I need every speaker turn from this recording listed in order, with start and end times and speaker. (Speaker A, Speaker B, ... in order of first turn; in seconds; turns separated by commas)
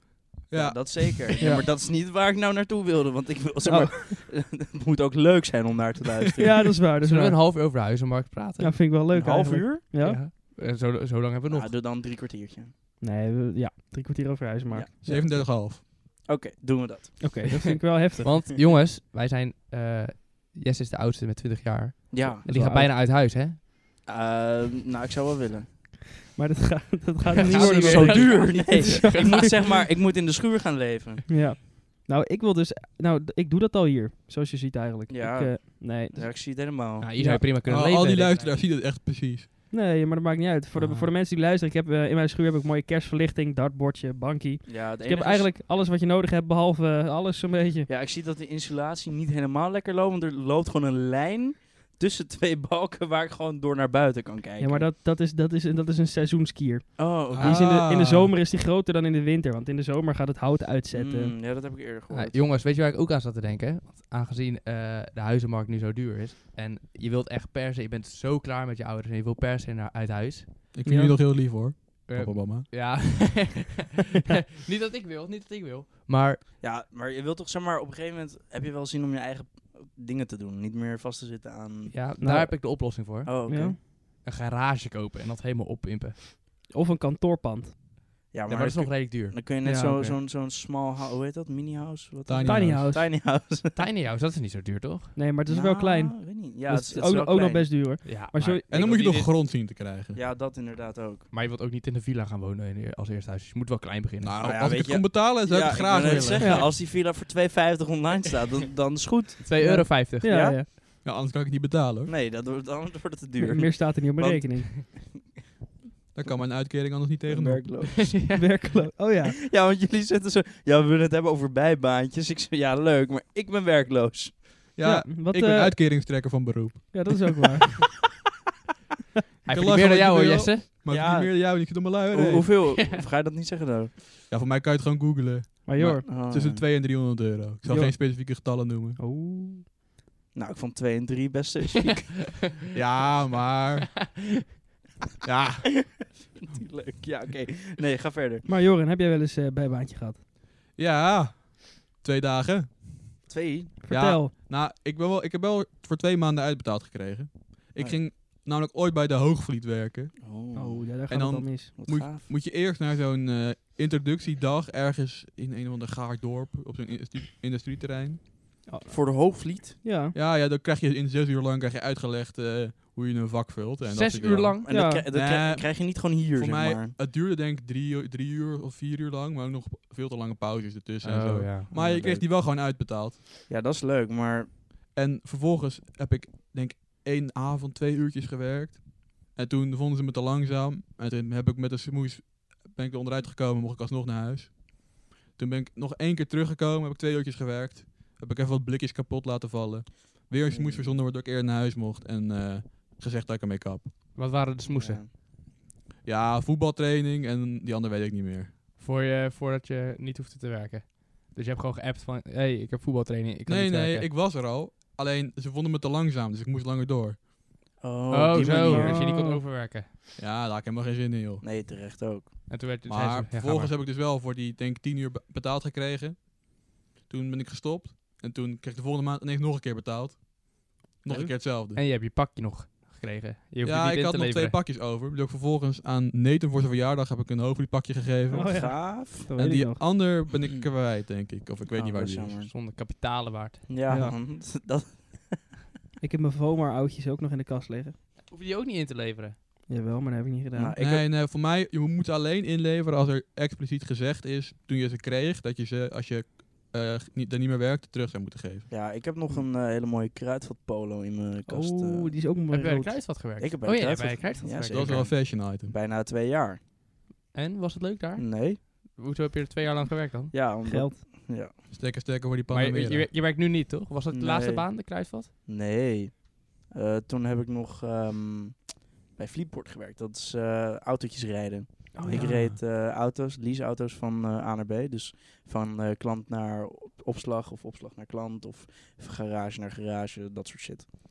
Speaker A: 0.5-1.1, Speaker B: 0.5-6.7, Speaker C: 3.6-4.2, Speaker C: 6.4-7.4, Speaker D: 7.0-8.9, Speaker C: 8.6-10.2, Speaker B: 9.1-9.9, Speaker D: 10.0-11.7, Speaker B: 11.5-12.7, Speaker C: 13.0-15.3, Speaker B: 14.7-17.4, Speaker A: 15.0-15.8, Speaker C: 17.2-18.3, Speaker D: 18.2-23.6, Speaker B: 22.1-22.4, Speaker C: 22.4-22.9, Speaker B: 24.1-25.7, Speaker C: 26.3-29.5, Speaker D: 27.4-29.7, Speaker B: 27.4-31.3, Speaker C: 31.3-37.4, Speaker B: 35.1-37.1, Speaker D: 37.0-38.5, Speaker A: 37.6-39.5, Speaker C: 39.7-47.9, Speaker D: 40.8-41.1, Speaker B: 44.6-45.5, Speaker B: 47.9-54.9, Speaker C: 54.6-61.3, Speaker B: 57.0-57.8, Speaker A: 57.3-58.3, Speaker B: 60.9-62.4, Speaker D: 62.1-70.5, Speaker A: 70.7-72.7, Speaker C: 70.8-71.2, Speaker D: 72.1-76.4, Speaker B: 76.6-81.9, Speaker D: 81.9-86.3, Speaker C: 82.2-82.6, Speaker B: 83.2-83.8, Speaker C: 83.5-83.8, Speaker C: 86.7-87.8, Speaker B: 88.3-93.8, Speaker D: 88.5-89.6, Speaker C: 89.6-90.2, Speaker A: 92.3-92.9, Speaker C: 92.4-93.1, Speaker D: 93.7-95.2, Speaker C: 95.1-98.6, Speaker B: 95.5-97.8, Speaker D: 98.0-99.3, Speaker A: 98.7-100.2, Speaker B: 100.1-101.3, Speaker D: 101.3-104.6, Speaker A: 104.2-106.6, Speaker B: 104.4-109.4, Speaker C: 106.4-106.7, Speaker D: 109.4-110.5, Speaker C: 109.6-110.7, Speaker B: 110.2-110.6, Speaker A: 111.0-112.1, Speaker B: 112.0-115.2, Speaker C: 113.4-114.7, Speaker A: 116.1-117.6, Speaker B: 116.2-116.6, Speaker B: 117.2-118.1, Speaker D: 117.8-118.7, Speaker C: 118.3-119.4, Speaker B: 119.2-124.6, Speaker A: 124.7-127.2, Speaker C: 124.8-125.8, Speaker C: 126.9-127.8, Speaker D: 129.4-130.7, Speaker A: 129.5-132.5, Speaker B: 130.9-133.9, Speaker D: 132.7-133.0, Speaker A: 134.3-139.0, Speaker C: 135.7-136.0, Speaker B: 136.0-136.6, Speaker C: 137.7-137.9, Speaker C: 139.0-139.6, Speaker B: 140.3-142.4, Speaker A: 142.7-144.0, Speaker A: 145.2-146.0, Speaker B: 145.8-148.4, Speaker C: 148.4-150.2, Speaker A: 150.8-153.2, Speaker B: 153.3-153.8, Speaker C: 153.8-154.3, Speaker A: 153.9-160.2, Speaker B: 160.2-160.9, Speaker C: 160.5-161.7, Speaker A: 161.1-168.3, Speaker B: 161.7-162.3, Speaker C: 168.7-170.1, Speaker B: 168.9-169.8, Speaker A: 170.1-183.2, Speaker D: 173.9-174.7, Speaker B: 174.6-176.9, Speaker C: 174.7-175.0, Speaker D: 181.0-182.2, Speaker B: 183.5-184.6, Speaker A: 184.9-204.1, Speaker B: 200.5-201.0, Speaker D: 204.1-205.0, Speaker B: 204.7-205.1, Speaker A: 206.0-208.5, Speaker D: 208.8-214.1, Speaker A: 213.5-217.3, Speaker B: 217.8-218.9, Speaker D: 218.1-219.9, Speaker C: 218.4-219.4, Speaker A: 220.2-221.4, Speaker B: 221.4-222.4, Speaker D: 222.5-223.7, Speaker A: 222.8-231.8, Speaker D: 231.7-234.6, Speaker A: 233.6-242.4, Speaker C: 238.3-239.8, Speaker B: 238.4-239.3, Speaker B: 241.7-242.5, Speaker D: 242.5-244.0, Speaker B: 243.7-245.5, Speaker C: 243.9-244.2, Speaker C: 246.0-247.9, Speaker D: 248.3-249.3, Speaker C: 249.7-250.7, Speaker B: 250.5-251.1, Speaker A: 250.8-258.7, Speaker B: 258.7-262.1, Speaker C: 261.5-263.0, Speaker D: 262.5-265.0, Speaker B: 263.3-266.6, Speaker A: 264.6-265.7, Speaker D: 267.3-270.3, Speaker B: 268.2-268.6, Speaker B: 270.3-271.5, Speaker C: 270.6-270.9, Speaker A: 271.7-273.1, Speaker D: 272.5-275.3, Speaker B: 274.1-290.9, Speaker C: 281.9-282.4, Speaker A: 282.1-282.6